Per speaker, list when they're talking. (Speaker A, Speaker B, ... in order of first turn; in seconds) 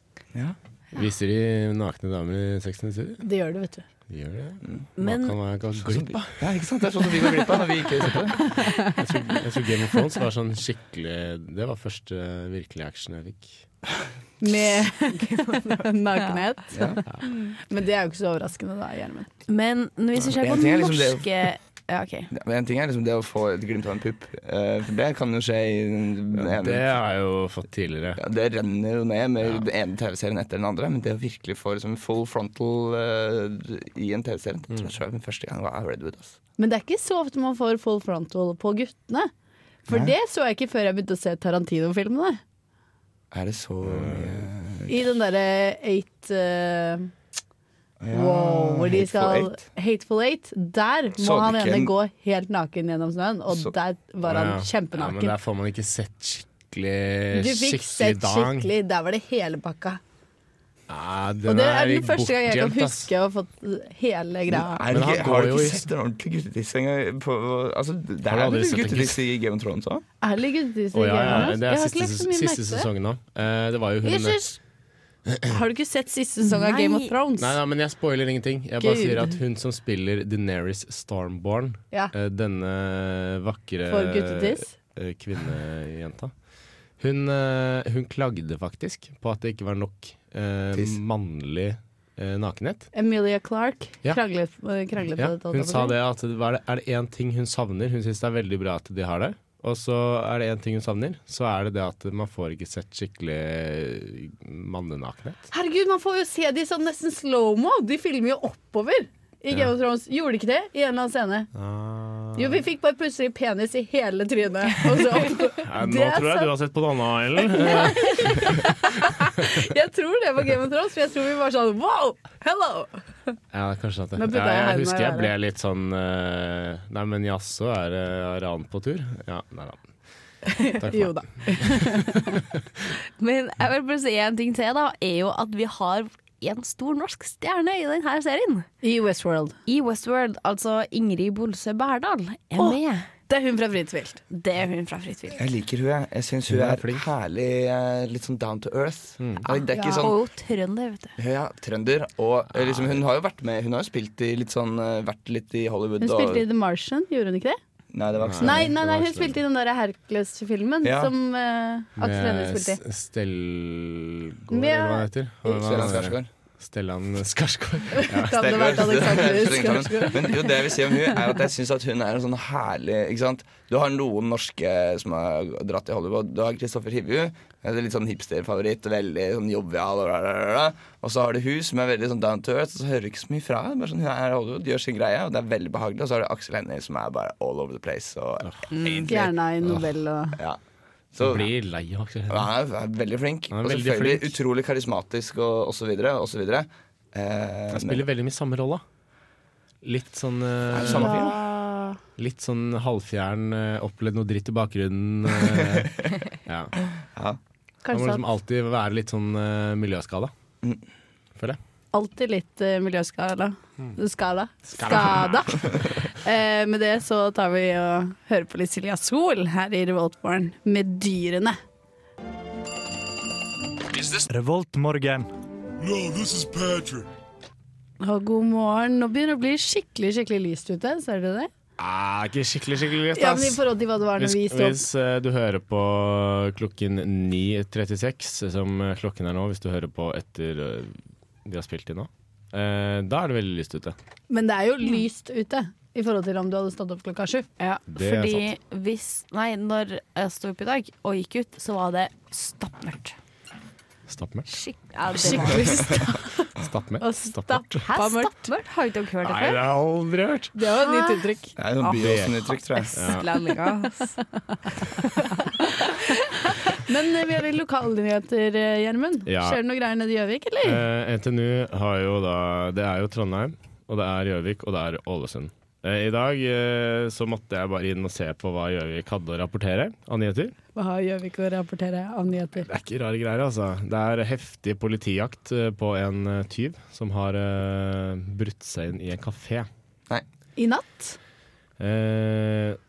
Speaker A: 0.9-3.2, 4.1-6.5, 8.9-13.6, 26.3-28.2, 43.9-44.4, 54.2-58.7, 60.9-63.1, 64.9-65.8, 68.2-69.2, 70.9-74.4, 75.3-75.5, 77.4-86.3, 87.0-92.9, 95.2-105.4, 111.5-112.6, 115.6-118.7, 123.5-129.8, 130.7-132.4, 146.5-147.1, 149.2-149.4, 152.5-153.0, 158.2-159.4, 162.0-168.4, 191.2-192.5, 193.5-194.3, 197.7-198.8, 199.8-201.1, 202.2-206.7, 207.9-210.3, 214.8-215.4, 231.8-243.9, 247.9-248.5, 254.1-254.5, 256.6-257.9, 259.2-260.6, 261.9-262.4, 262.9-263.3, 269.2-269.6, 270.6-280.5, 282.6-289.7, 291.8-292.8
Speaker B: 3.2-3.9, 14.4-17.0, 17.5-19.3, 36.6-39.3, 39.9-42.4, 44.9-47.1, 48.1-55.3, 57.3-60.0, 61.4-64.8, 70.2-72.9, 74.0-74.6, 75.5-77.6, 78.8-79.4, 83.9-84.7, 92.9-96.0, 105.5-111.5, 112.3-116.5, 117.4-123.0, 124.2-125.3, 130.6-132.4, 138.8-139.6, 142.6-144.2, 149.7-150.1, 156.0-157.6, 158.4-162.8, 164.5-165.1, 167.9-171.2, 189.1-190.4, 200.8-202.0, 207.8-208.2, 211.9-221.6, 228.0-231.5, 233.1-234.8, 244.3-247.5, 255.1-256.3, 257.0-258.4, 260.5-261.5, 265.4-270.8, 280.7-282.7, 290.6-291.2
Speaker C: 5.0-5.4, 15.1-16.4, 17.3-17.5, 19.5-22.3, 76.4-77.1, 133.2-138.7, 139.7-143.1, 144.3-145.4, 149.5-151.2, 188.7-189.1, 247.6-253.2, 254.5-256.0, 257.8-259.6, 260.8-261.2, 262.7-264.2
Speaker D: 5.8-8.5, 16.7-17.0, 20.2-21.5, 22.3-26.9, 28.1-36.4, 39.9-40.1, 43.3-45.1, 48.0-49.6, 51.2-51.9, 64.5-70.0, 90.7-91.0, 145.3-150.2, 151.2-156.4, 157.9-158.7, 160.8-161.1, 165.4-166.3, 168.3-189.3, 191.1-191.5, 192.3-198.0, 200.7-201.4, 205.3-206.1, 207.1-207.4, 261.6-263.0
Speaker E: 223.9-225.3, 225.8-227.0